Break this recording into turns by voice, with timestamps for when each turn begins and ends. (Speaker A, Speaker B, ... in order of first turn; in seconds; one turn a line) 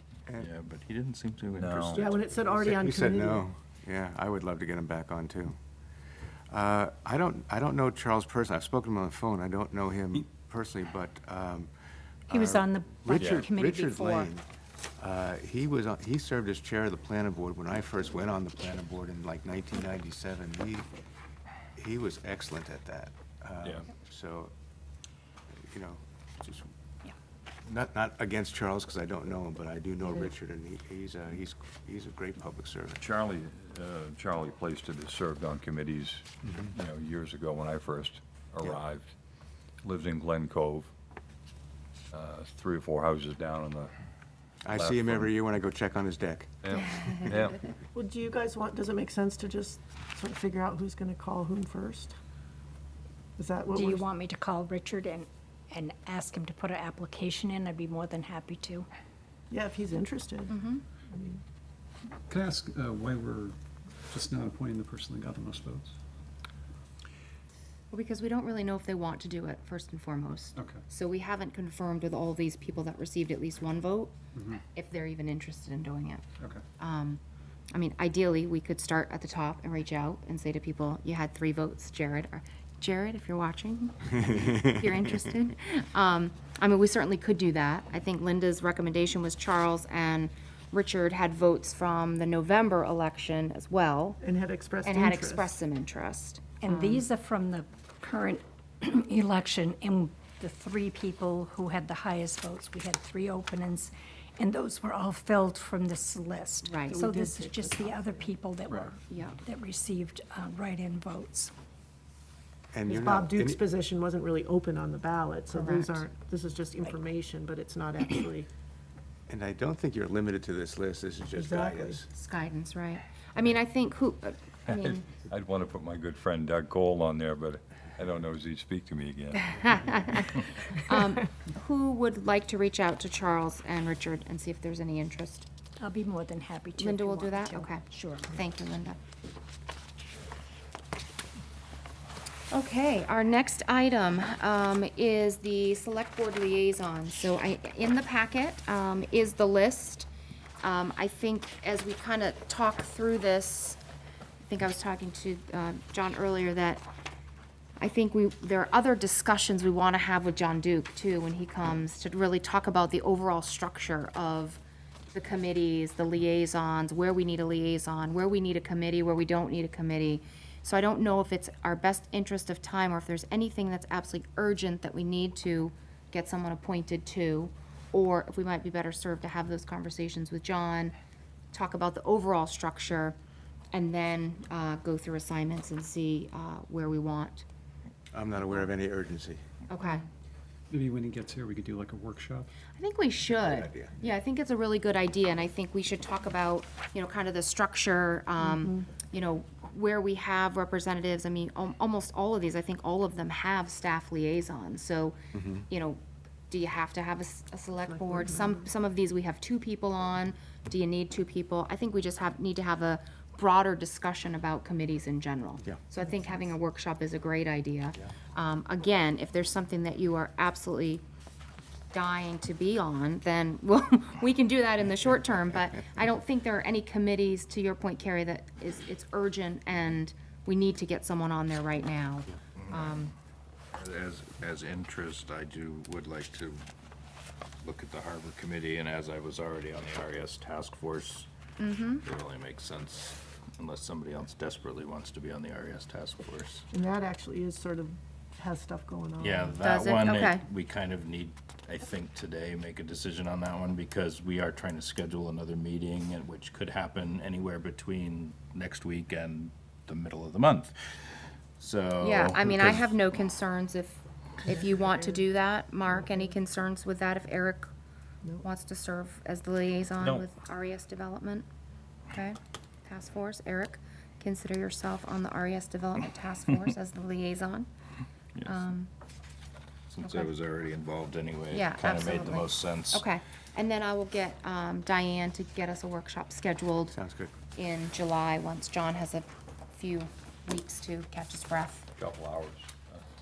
Speaker A: 0.4-2.1
Speaker B: 1.5-2.0
Speaker C: 1.9-3.4
Speaker D: 2.0-5.6
Speaker D: 6.5-11.7
Speaker D: 12.3-14.4
Speaker E: 12.3-14.3
Speaker B: 13.1-13.5
Speaker D: 15.0-20.9
Speaker D: 21.8-24.5
Speaker D: 25.7-26.7
Speaker D: 27.6-33.0
Speaker B: 33.0-39.1
Speaker B: 39.8-40.9
Speaker B: 42.1-43.9
Speaker D: 44.6-46.5
Speaker B: 44.7-45.3
Speaker B: 46.6-47.6
Speaker F: 46.8-47.2
Speaker C: 47.9-52.1
Speaker C: 53.4-54.1
Speaker E: 53.7-58.9
Speaker C: 59.5-60.6
Speaker F: 60.5-60.8
Speaker C: 61.1-61.4
Speaker G: 62.3-63.6
Speaker G: 64.1-65.9
Speaker F: 67.9-74.1
Speaker G: 74.3-74.6
Speaker F: 74.7-76.2
Speaker F: 76.8-77.2
Speaker F: 77.7-94.2
Speaker C: 94.2-95.5
Speaker F: 94.8-97.0
Speaker E: 96.6-111.5
Speaker F: 106.6-107.0
Speaker C: 106.9-108.3
Speaker F: 109.1-109.4
Speaker D: 112.7-113.6
Speaker C: 112.9-118.5
Speaker F: 115.5-116.0
Speaker D: 119.3-122.1
Speaker C: 121.3-122.0
Speaker F: 122.1-125.1
Speaker B: 124.7-129.7
Speaker F: 129.5-135.5
Speaker E: 135.8-138.3
Speaker F: 136.8-139.0
Speaker F: 142.5-150.1
Speaker F: 150.6-153.8
Speaker F: 154.4-156.8
Speaker F: 157.8-164.6
Speaker F: 165.1-180.9
Speaker F: 181.5-183.2
Speaker F: 183.7-187.4
Speaker D: 188.1-189.4
Speaker F: 189.7-190.0
Speaker G: 190.7-192.5
Speaker F: 192.8-205.2
Speaker D: 193.3-194.0
Speaker C: 198.4-198.8
Speaker D: 205.3-205.6
Speaker F: 205.7-221.0
Speaker C: 207.9-208.6
Speaker F: 221.9-233.1
Speaker A: 232.6-233.1
Speaker A: 233.7-236.6
Speaker A: 237.6-241.3
Speaker F: 241.6-242.0
Speaker A: 242.0-246.6
Speaker C: 246.7-249.6
Speaker A: 249.2-260.7
Speaker F: 249.6-250.4
Speaker A: 261.6-262.9
Speaker F: 262.0-267.7
Speaker C: 264.5-264.9
Speaker F: 268.4-271.4
Speaker F: 272.1-277.7
Speaker A: 278.4-278.7
Speaker F: 278.4-278.9
Speaker A: 279.9-283.0
Speaker F: 281.5-286.9
Speaker D: 286.9-287.3
Speaker F: 287.5-291.9
Speaker B: 292.0-293.0